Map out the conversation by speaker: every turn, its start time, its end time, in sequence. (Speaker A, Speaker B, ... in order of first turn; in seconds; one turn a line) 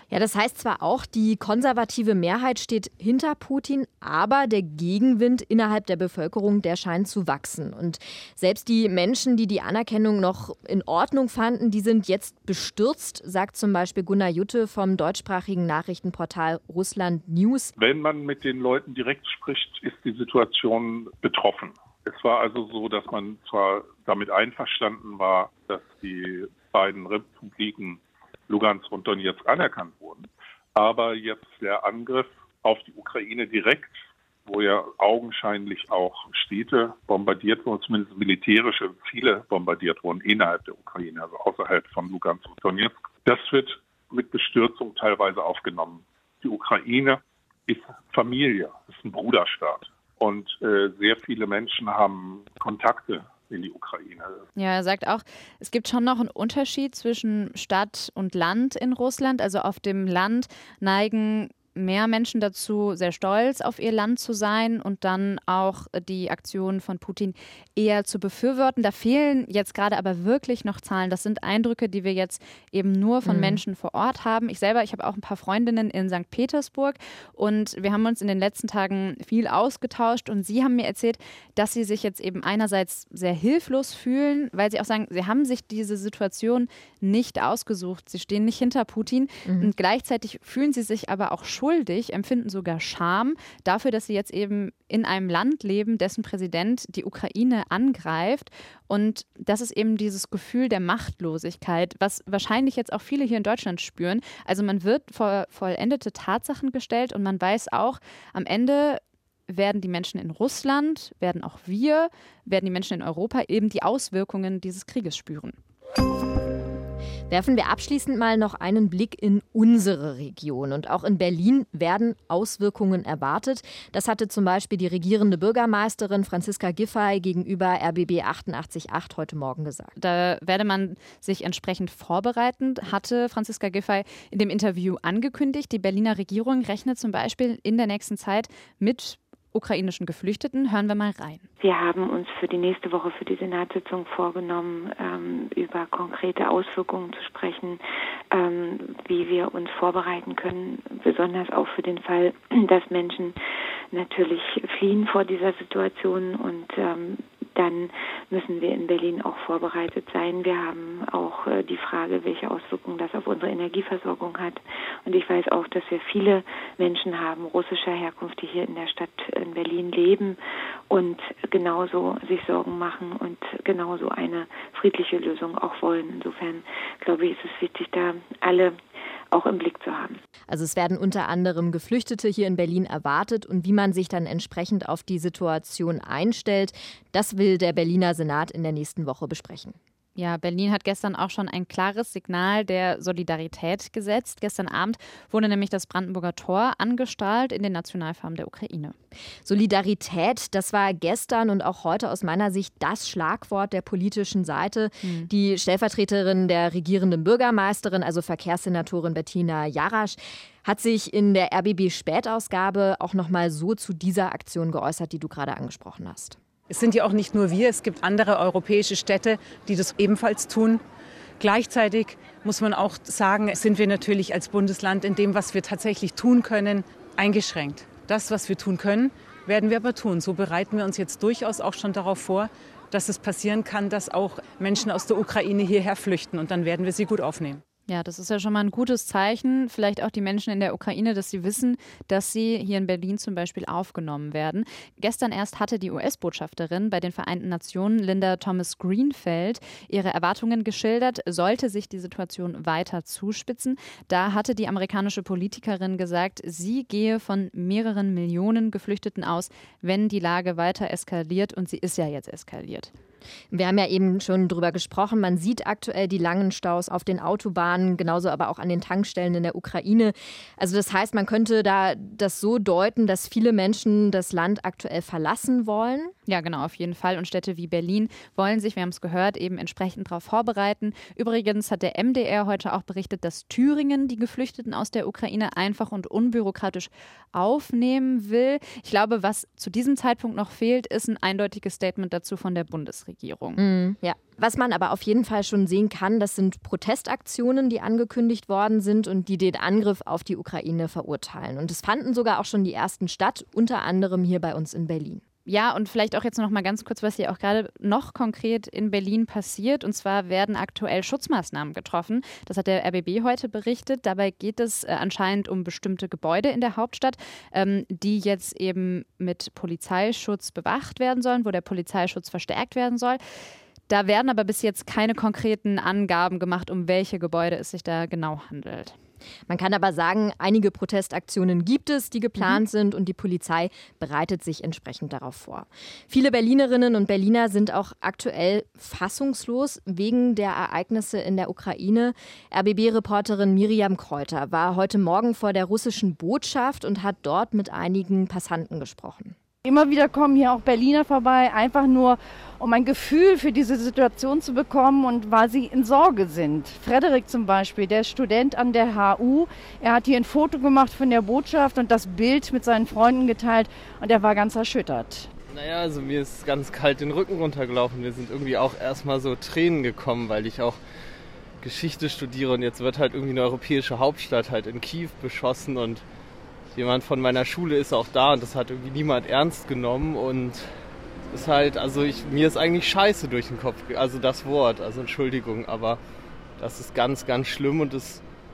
Speaker A: 0.1-17.7
Speaker B: 17.8-54.4
Speaker C: 54.6-115.6
Speaker A: 73.2-73.6
Speaker A: 89.5-89.7
Speaker A: 117.3-129.9
Speaker C: 130.0-141.5
Speaker D: 141.6-147.8
Speaker D: 148.3-153.3
Speaker D: 153.9-170.4
Speaker D: 170.9-178.8
Speaker D: 179.3-180.2
Speaker A: 180.5-189.8
Speaker C: 190.2-198.9
Speaker A: 199.4-216.4
Speaker C: 205.0-205.3
Speaker E: 216.7-220.8
Speaker E: 221.4-237.6
Speaker C: 237.9-262.9
Speaker A: 263.5-276.1
Speaker C: 276.3-293.6
Speaker A: 293.6-305.2
Speaker C: 305.5-323.2
Speaker C: 323.9-329.0
Speaker A: 329.5-349.4
Speaker F: 349.6-365.3
Speaker G: 365.5-370.8
Speaker G: 371.6-376.0
Speaker G: 376.7-380.7
Speaker G: 381.3-386.0
Speaker G: 386.6-388.2